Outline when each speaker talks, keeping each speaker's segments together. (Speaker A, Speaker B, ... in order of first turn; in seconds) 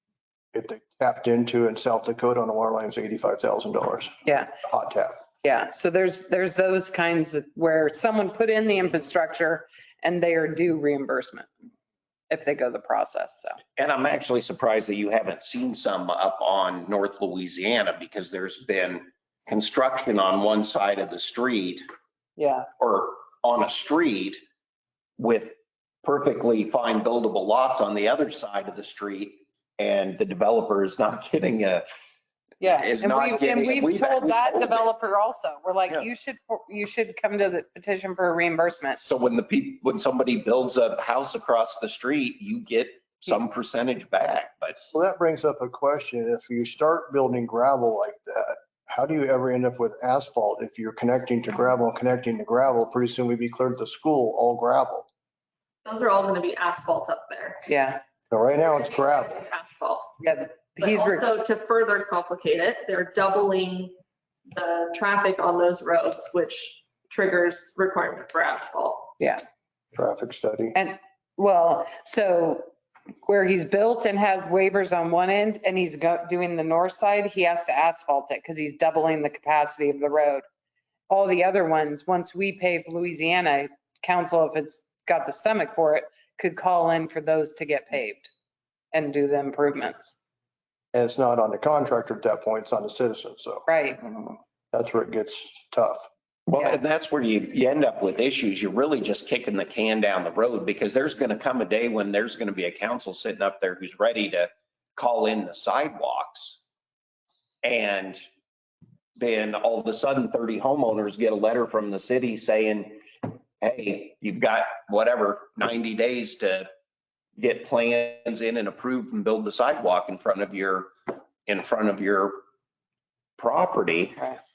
Speaker A: 0.5-5.2, 44.9-55.1, 58.3-59.4, 69.9-70.8, 90.9-93.7, 94.7-96.1
Speaker B: 4.2-4.5, 5.4-11.5, 12.3-13.6, 22.4-22.7, 32.6-39.0, 57.7-58.0, 60.2-61.3, 70.8-72.7, 73.2-80.4, 81.1-88.3, 88.9-90.2, 93.7-94.0
Speaker C: 13.8-21.8, 22.8-24.4, 25.2-31.9, 32.6-34.8, 39.0-44.9, 96.5-106.6, 107.6-108.2, 109.2-116.7, 117.4-122.4, 123.4-124.2
Speaker D: 55.8-57.7, 59.0-60.1, 60.8-63.9, 64.5-69.1